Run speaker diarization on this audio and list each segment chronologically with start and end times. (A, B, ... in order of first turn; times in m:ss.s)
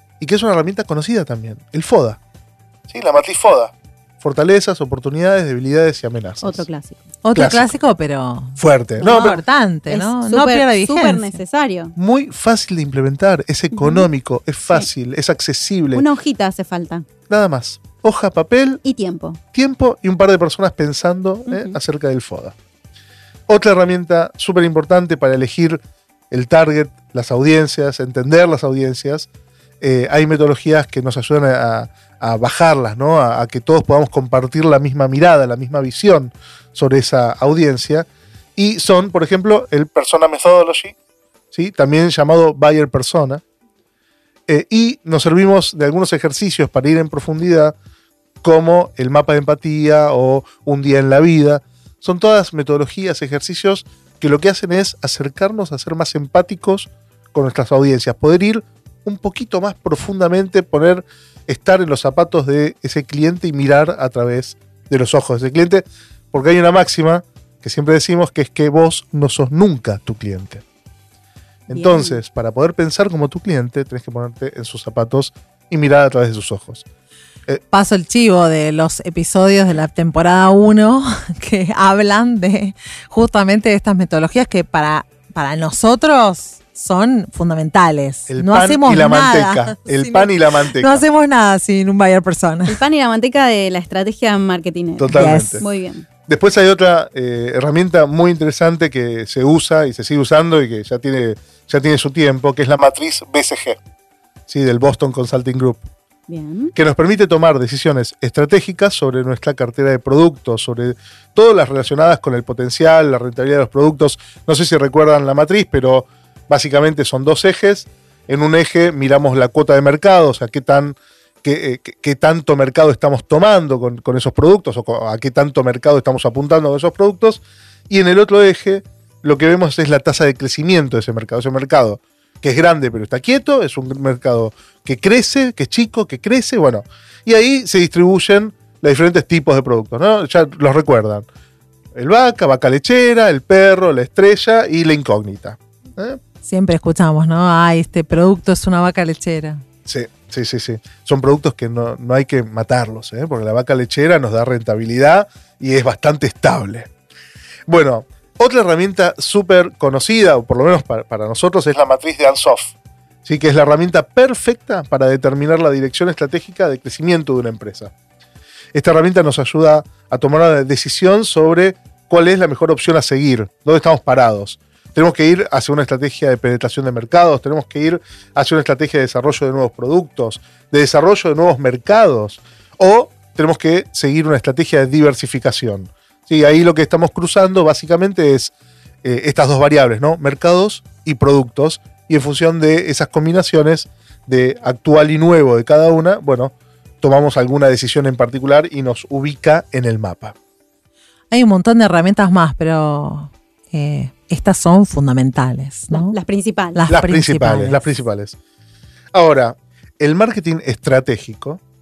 0:00.2-0:02.2 A
0:02.9-0:06.6 A
0:06.4-0:07.1 B
0:07.2-0:11.4 C
0:07.3-0:07.7 A
0:08.6-0:09.4 A
0:09.0-0:11.9 B
0:12.0-0:16.0 A
0:13.7-0:14.1 B
0:15.9-0:17.0 B
0:17.3-0:18.8 A
0:18.8-0:19.4 B
0:19.5-0:22.5 A
0:21.5-0:21.8 B
0:23.5-0:29.3 A
0:29.8-0:40.9 A
0:41.5-0:43.4 A
0:44.5-0:47.7 A
0:48.4-1:10.6 A
1:11.7-1:16.8 A
1:11.7-1:12.2 B
1:17.7-1:32.8 C
1:28.3-1:31.0 A
1:32.7-1:36.0 B
1:35.0-1:35.6 A
1:35.1-1:35.6 C
1:36.2-1:43.8 A
1:44.5-1:45.8 A
1:46.3-1:46.7 B
1:46.7-2:21.2 A
2:21.9-2:26.2 A
2:26.4-2:29.6 C
2:29.8-2:36.9 A
2:37.7-2:42.7 A
2:43.2-2:47.9 A
2:48.7-3:08.5 A
3:09.0-3:20.3 A
3:21.3-3:26.2 C
3:25.9-3:26.8 B
3:26.7-3:27.9 C
3:26.9-3:28.4 A
3:29.1-3:31.6 A